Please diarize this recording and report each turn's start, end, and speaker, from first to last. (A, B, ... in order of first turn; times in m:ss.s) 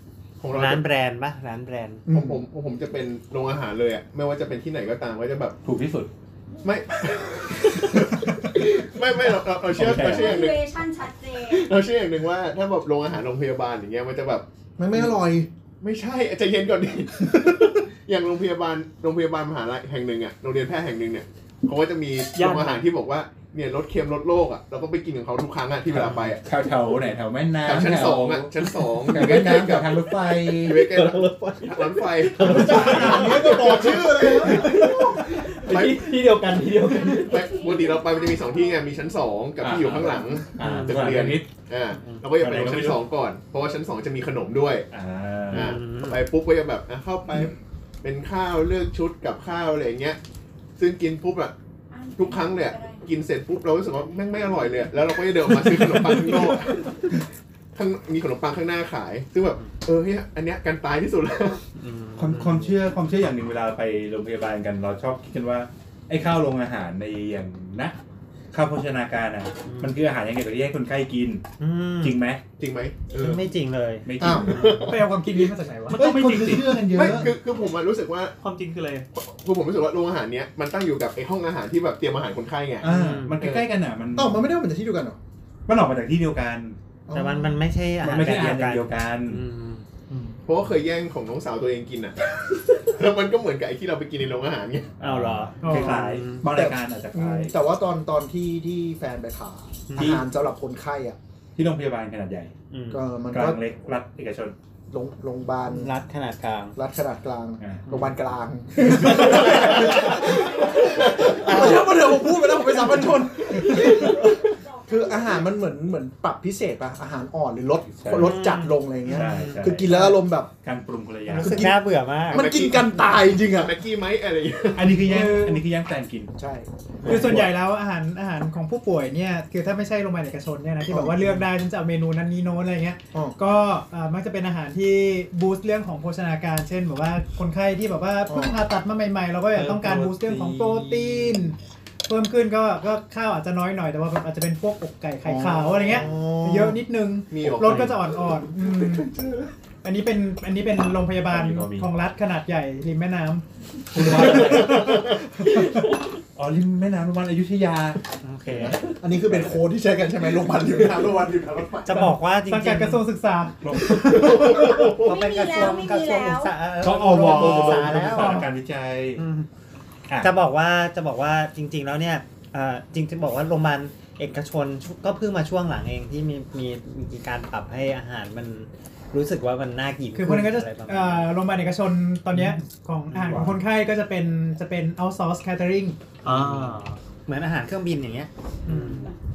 0:00.4-0:00.8 A
0:00.5-0:02.0 B
0:02.1-0:02.4 C
0:02.1-0:05.6 A
0:05.6-0:06.1 D
0:06.6-0:10.6 A
0:09.7-0:10.3 D
0:09.9-0:11.7 E
0:11.4-0:14.4 A
0:14.8-0:15.5 C
0:15.8-0:26.4 A
0:22.3-0:22.9 F
0:25.9-0:30.9 D
0:27.6-0:36.2 A
0:30.6-0:37.5 G
0:32.4-0:33.3 D
0:32.9-0:34.8 C
0:37.0-0:39.0 E
0:37.2-0:44.9 A
0:39.6-0:41.5 D
0:40.6-0:41.0 B
0:42.4-0:43.0 D
0:44.9-0:45.8 D
0:45.5-0:50.2 A
0:45.5-0:46.2 B
0:50.8-0:51.5 A
0:51.9-0:53.1 E
0:52.1-0:57.2 A
0:57.7-1:01.6 A
1:01.8-1:02.8 B
1:02.2-1:08.0 D
1:08.5-1:11.4 D
1:09.6-1:10.0 B
1:11.6-1:12.2 B
1:12.0-1:12.4 D
1:12.6-1:13.4 A
1:13.1-1:14.9 B
1:14.0-1:14.8 D
1:14.2-1:14.5 C
1:14.2-1:15.5 A
1:14.8-1:16.1 H
1:15.9-1:16.9 F
1:15.9-1:17.4 D
1:16.8-1:18.3 A
1:18.4-1:19.1 F
1:19.1-1:23.7 A
1:22.8-1:24.4 D
1:22.8-1:23.4 B
1:24.2-1:25.2 C
1:25.7-1:26.8 D
1:27.1-1:27.5 C
1:27.1-1:29.8 B
1:28.0-1:29.4 D
1:30.4-1:34.9 A
1:35.0-1:37.5 D
1:35.0-1:36.5 B
1:35.6-1:36.2 H
1:36.5-1:41.2 C
1:39.9-1:40.2 B
1:40.0-1:40.2 D
1:41.6-1:42.5 D
1:42.7-1:43.0 B
1:42.9-1:43.6 C
1:43.3-1:44.5 D
1:44.9-1:45.9 C
1:45.6-1:46.7 B
1:46.8-2:00.5 C
1:47.6-1:47.9 D
1:47.9-1:48.1 B
1:48.8-1:50.3 D
1:49.1-1:50.3 B
1:51.1-1:52.0 B
1:53.9-1:55.4 E
1:58.0-1:58.5 D
1:58.1-1:59.7 B
1:59.0-2:01.8 D
2:01.3-2:02.5 B
2:01.3-2:03.8 C
2:02.3-2:05.0 A
2:04.7-2:06.3 D
2:05.0-2:05.6 H
2:06.3-2:07.5 C
2:07.0-2:07.5 D
2:07.0-2:29.1 H
2:10.9-2:11.2 C
2:13.1-2:13.4 C
2:18.3-2:18.6 C
2:19.5-2:21.5 D
2:25.2-2:26.8 C
2:27.3-2:28.0 A
2:27.6-2:27.9 F
2:29.8-2:33.4 H
2:31.2-2:31.9 D
2:33.9-2:35.5 D
2:34.2-2:35.1 H
2:36.3-2:38.0 D
2:38.2-2:38.9 B
2:38.7-2:39.6 D
2:39.0-2:42.2 C
2:41.8-2:43.0 B
2:41.9-2:45.0 H
2:43.6-2:44.4 D
2:44.4-2:45.2 A
2:44.7-2:48.5 B
2:44.9-2:46.6 E
2:46.8-2:49.2 D
2:47.1-2:48.5 H
2:49.2-2:49.5 B
2:50.2-3:01.3 B
3:00.1-3:06.0 H
3:02.3-3:03.6 D
3:06.2-3:07.0 F
3:06.2-3:06.7 B
3:07.3-3:09.1 B
3:08.7-3:09.1 H